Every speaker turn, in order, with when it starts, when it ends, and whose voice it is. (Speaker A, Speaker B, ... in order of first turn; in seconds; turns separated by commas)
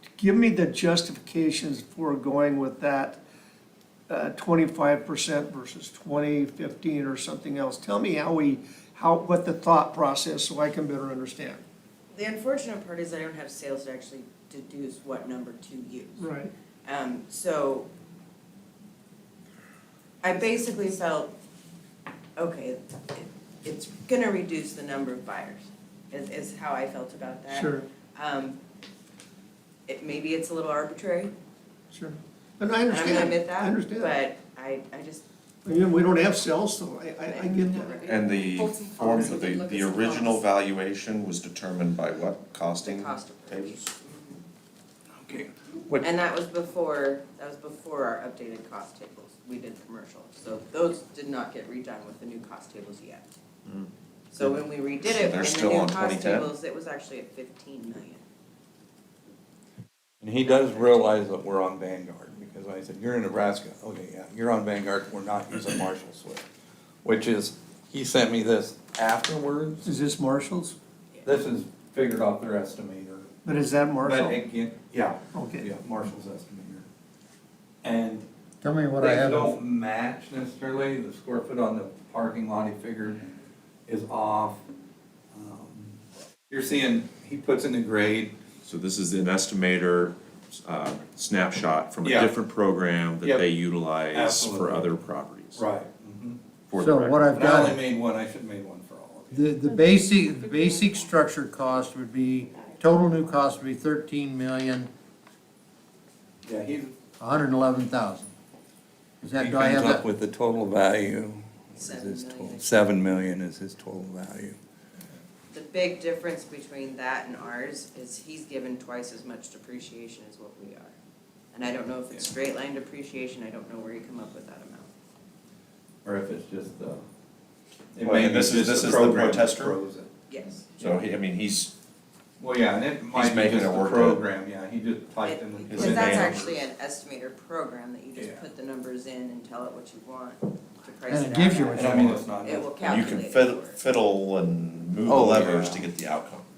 Speaker A: 0.2-3.2, Speaker A: 4.1-11.6, Speaker B: 12.1-16.3, Speaker A: 16.2-16.5, Speaker B: 16.9-17.9, Speaker B: 20.2-21.3, Speaker B: 22.4-28.6, Speaker A: 27.5-27.9, Speaker B: 29.9-31.3, Speaker A: 31.9-34.2, Speaker B: 32.9-35.2, Speaker A: 35.6-38.1, Speaker B: 37.3-40.4, Speaker C: 38.1-43.9, Speaker B: 42.8-44.5, Speaker D: 45.1-46.1, Speaker B: 46.0-53.3, Speaker C: 53.6-53.9, Speaker B: 54.3-58.2, Speaker C: 54.4-56.5, Speaker D: 60.2-66.5, Speaker B: 60.5-61.0, Speaker D: 67.0-69.9, Speaker A: 69.8-70.8, Speaker D: 71.2-73.3, Speaker A: 73.4-74.4, Speaker D: 74.0-76.9, Speaker A: 75.3-75.7, Speaker D: 77.8-78.3, Speaker E: 78.6-79.5, Speaker D: 79.0-83.3, Speaker D: 83.9-84.6, Speaker D: 85.3-86.0, Speaker D: 86.5-88.4, Speaker C: 88.6-95.6, Speaker D: 92.0-92.3, Speaker D: 93.2-93.5, Speaker D: 94.1-95.0, Speaker D: 95.5-96.4, Speaker C: 96.7-97.8, Speaker E: 96.8-97.8, Speaker D: 97.3-99.5, Speaker E: 99.3-104.9, Speaker D: 106.4-107.0, Speaker E: 107.2-108.3, Speaker E: 109.2-110.0, Speaker D: 109.4-114.6, Speaker B: 111.8-112.8, Speaker B: 115.5-121.0, Speaker B: 121.5-124.9, Speaker D: 126.0-127.0, Speaker D: 128.0-130.1, Speaker C: 128.0-129.8, Speaker B: 130.3-130.7, Speaker C: 130.8-131.7, Speaker D: 132.4-136.6, Speaker C: 133.1-134.2, Speaker B: 135.2-143.8, Speaker C: 135.7-136.4, Speaker D: 138.2-138.4, Speaker E: 141.1-142.2, Speaker D: 141.7-142.8, Speaker C: 142.8-146.5, Speaker D: 145.1-145.9